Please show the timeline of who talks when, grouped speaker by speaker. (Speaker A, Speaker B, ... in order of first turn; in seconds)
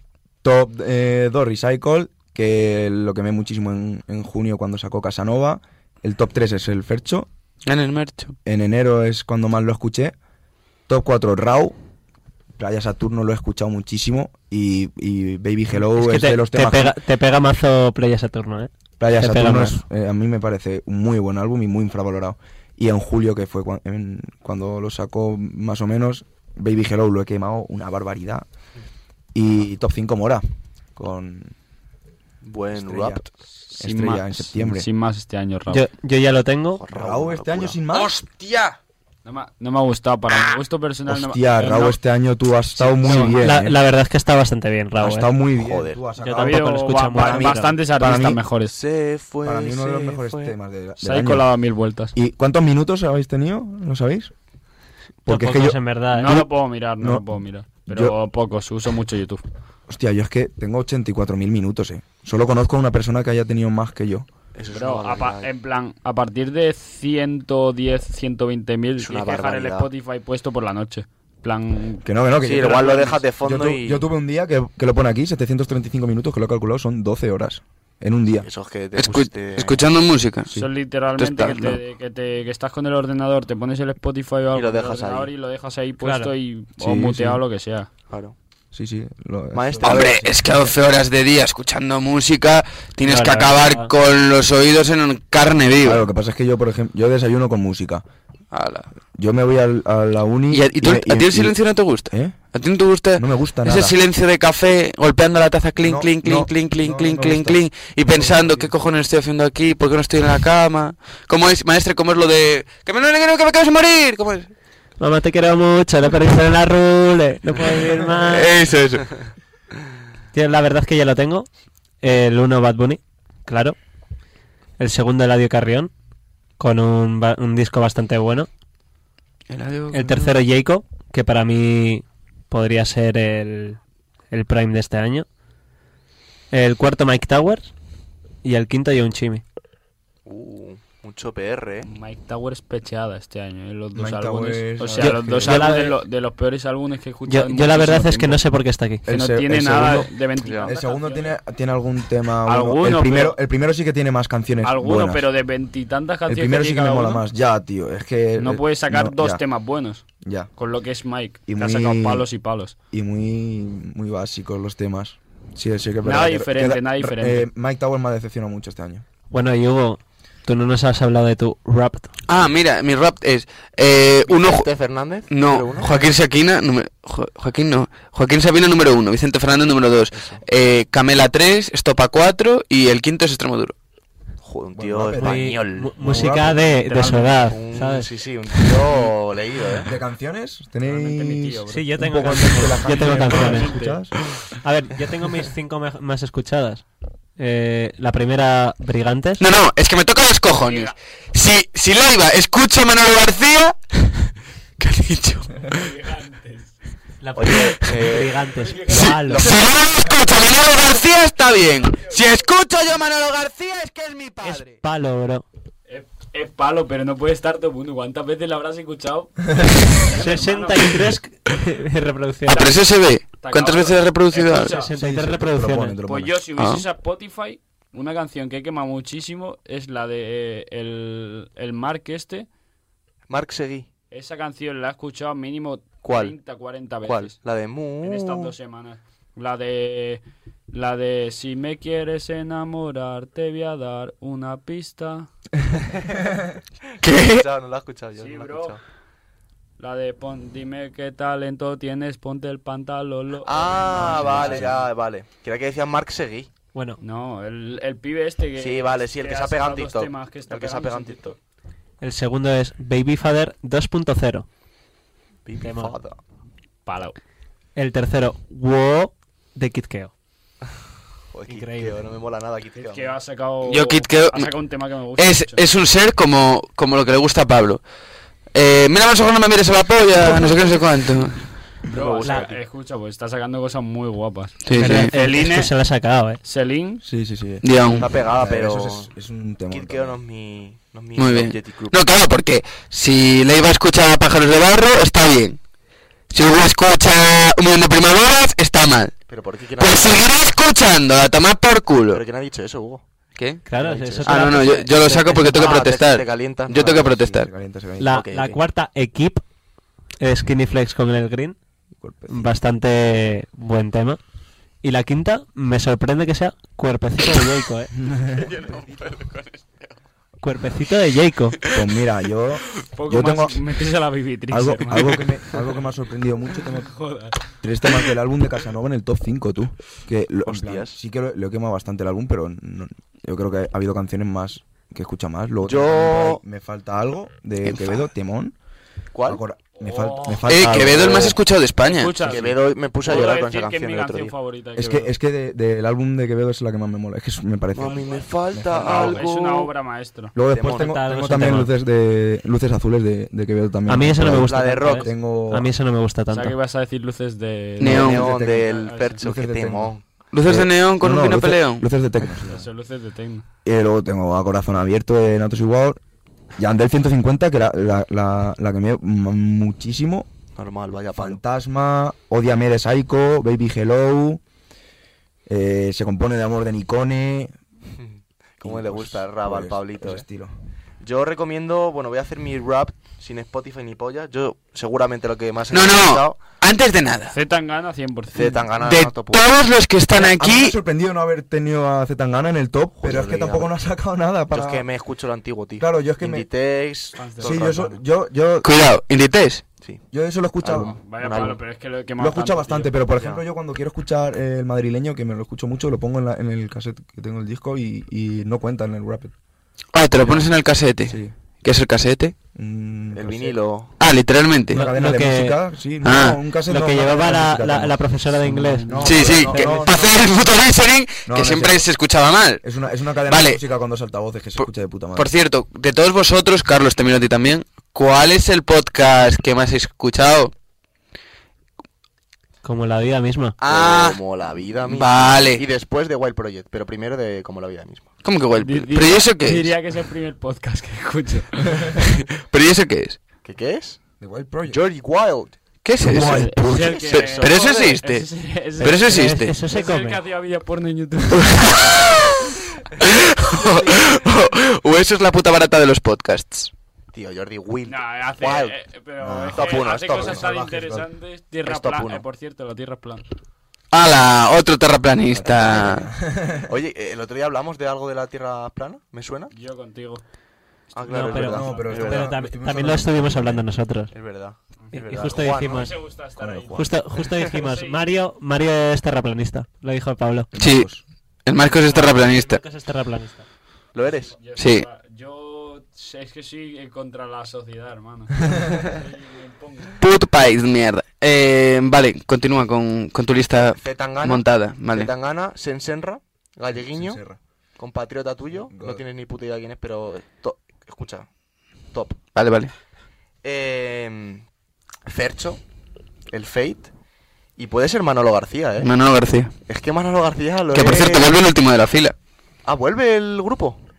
Speaker A: 0.4-7.3, 8.4-10.2, 10.9-11.8, 12.6-16.9, 19.0-28.5, 29.3-30.4, 31.0-31.5, 32.7-33.2, 33.8-34.9, 36.9-38.2, 41.1-43.8, 45.0-48.4, 49.4-51.5, 52.1-54.3, 55.3-57.3, 57.9-58.2, 59.9-64.3, 72.0-72.8, 73.3-78.5, 86.8-87.4, 88.7-90.7, 95.8-98.0, 99.2-102.4, 103.2-104.0, 105.8-108.8, 143.9-145.6, 149.0-155.3, 156.3-159.5, 160.2-160.5, 161.5-162.3, 162.9-169.0, 184.7-186.6, 189.8-194.1, 224.9-226.4, 254.0-254.8, 287.0-290.2, 306.7-308.2, 312.0-312.6, 317.9-318.6, 321.7-323.6, 324.5-326.9, 327.6-338.6, 339.2-341.4, 344.8-349.2, 350.3-355.7, 357.8-358.7, 359.2-359.9, 360.4-362.7, 363.6-366.0, 366.6-370.3, 371.1-374.4, 375.5-377.5, 378.6-380.5, 390.1-394.9, 395.8-396.5, 397.4-398.7, 400.1-401.0, 402.2-409.3, 410.2-411.3, 412.6-413.6, 414.7-418.0, 418.8-420.2, 421.2-421.9, 422.6-425.3, 444.2-444.8, 446.0-447.0, 459.2-461.1, 465.3-466.7, 471.4-473.6, 476.4-476.8, 480.5-481.0, 496.8-497.4, 498.7-499.0
Speaker B: 7.7-8.3, 37.9-38.8, 79.0-80.5, 81.2-81.8, 89.8-96.1, 98.5-98.9, 100.5-114.5, 118.3-119.1, 129.5-130.4, 172.3-174.7, 175.3-183.7, 199.4-204.2, 204.8-205.8, 208.9-214.7, 222.5-224.7, 226.6-226.8, 247.0-247.5, 273.6-274.5, 275.2-277.8, 278.5-281.5, 284.6-285.1, 287.6-288.1, 291.1-295.6, 296.3-299.2, 299.8-302.2, 303.4-303.6, 304.2-307.5, 318.3-319.8, 340.5-342.1, 357.8-358.3, 360.3-361.9, 385.7-387.4, 388.8-390.8, 398.6-399.6, 409.9-412.3, 414.0-414.9, 416.0-416.4, 419.0-422.6, 423.2-423.6, 424.6-430.5, 433.6-434.2, 434.9-435.7, 438.2-439.8, 442.0-443.2, 445.8-448.3, 448.8-449.6, 451.5-452.3, 453.0-456.7, 463.9-466.1, 480.6-480.9, 481.4-482.6, 484.6-484.9, 490.0-495.1, 502.3-502.7, 508.8-509.5, 510.7-512.1
Speaker C: 15.8-19.8, 35.7-36.8, 43.1-45.3, 46.1-47.8, 55.3-56.4, 86.0-86.3, 93.0-93.9, 115.0-118.6, 120.3-121.5, 122.0-123.8, 124.8-125.9, 126.6-128.5, 129.9-133.8, 134.3-135.3, 136.5-137.7, 138.4-139.4, 144.9-146.0, 147.3-149.0, 169.3-172.1, 185.2-188.1, 191.7-194.0, 194.6-196.8, 197.4-199.4, 207.2-209.5, 214.4-215.4, 220.1-222.7, 224.5-226.0, 254.3-254.7, 256.7-257.0, 262.0-264.5, 265.6-265.9, 267.8-270.1, 271.5-272.0, 282.2-282.5, 284.8-286.4, 303.6-305.9, 308.0-309.4, 310.2-311.6, 312.3-314.2, 314.8-317.9, 320.4-321.6, 350.8-351.7, 353.9-356.6, 414.7-415.6, 416.7-420.1, 432.6-433.6, 448.8-450.2, 471.1-474.1, 474.9-475.9, 476.7-480.5, 481.6-483.4
Speaker D: 32.4-33.3, 36.8-37.8, 45.5-46.1, 48.7-50.6, 64.5-65.5, 69.0-69.9, 72.4-74.1, 78.4-79.9, 84.5-85.3, 88.1-88.3, 89.5-90.3, 140.3-141.9, 150.4-150.7, 174.2-175.9, 180.1-180.4, 184.4-185.9, 187.5-189.9, 207.3-209.7, 233.3-233.9, 236.0-236.3, 237.0-238.5, 247.1-248.8, 253.4-256.5, 258.6-261.4, 265.5-266.2, 271.3-273.1, 281.9-282.6, 287.9-289.1, 289.7-292.1, 299.3-300.3, 302.1-303.0, 303.8-307.1, 308.1-308.6, 330.4-331.0, 335.6-336.4, 339.1-339.4, 341.0-341.3, 342.2-344.3, 347.7-349.7, 350.5-350.9, 354.2-355.2, 357.8-360.0, 370.6-371.4, 378.0-380.2, 381.0-386.4, 388.3-389.5, 393.0-393.8, 394.5-397.8, 400.6-401.6, 403.1-403.4, 413.1-413.9, 433.7-438.1, 443.4-444.0, 444.7-445.6, 446.7-447.9, 457.1-458.8, 459.5-460.5, 461.6-462.2, 466.7-469.5, 470.9-472.4, 474.1-476.0, 483.9-484.4, 493.5-497.2, 497.8-501.3, 501.9-502.2, 503.4-504.4, 505.1-505.6, 506.3-506.9, 507.6-508.9, 509.7-511.3, 512.6-513.8
Speaker E: 33.6-35.9, 39.2-42.0, 42.6-43.4, 46.3-48.8, 51.0-52.1, 56.1-59.4, 64.7-72.0, 72.6-73.2, 80.5-87.9, 141.8-148.4, 149.1-151.4, 152.5-153.4, 154.6-157.3, 158.3-160.0, 160.6-162.7, 166.0-167.5, 186.8-187.5, 190.8-194.0, 200.5-200.9, 205.6-206.8, 208.5-209.0, 215.9-221.1, 222.5-224.9, 226.0-232.5, 234.1-237.4, 238.0-245.3, 248.2-248.8, 249.8-254.6, 257.0-261.4, 266.9-267.2, 272.7-275.7, 281.9-285.8, 286.4-287.0, 322.9-325.8, 326.6-327.4, 339.8-340.5, 341.8-345.1, 347.9-350.4, 356.3-359.3, 362.4-363.4, 387.3-388.8, 397.2-398.0, 400.8-403.0, 418.5-419.4, 438.6-442.0, 446.2-451.9, 453.5-454.2, 457.9-463.2, 469.5-470.2, 470.9-472.0, 474.9-476.9, 477.4-478.0, 484.1-490.0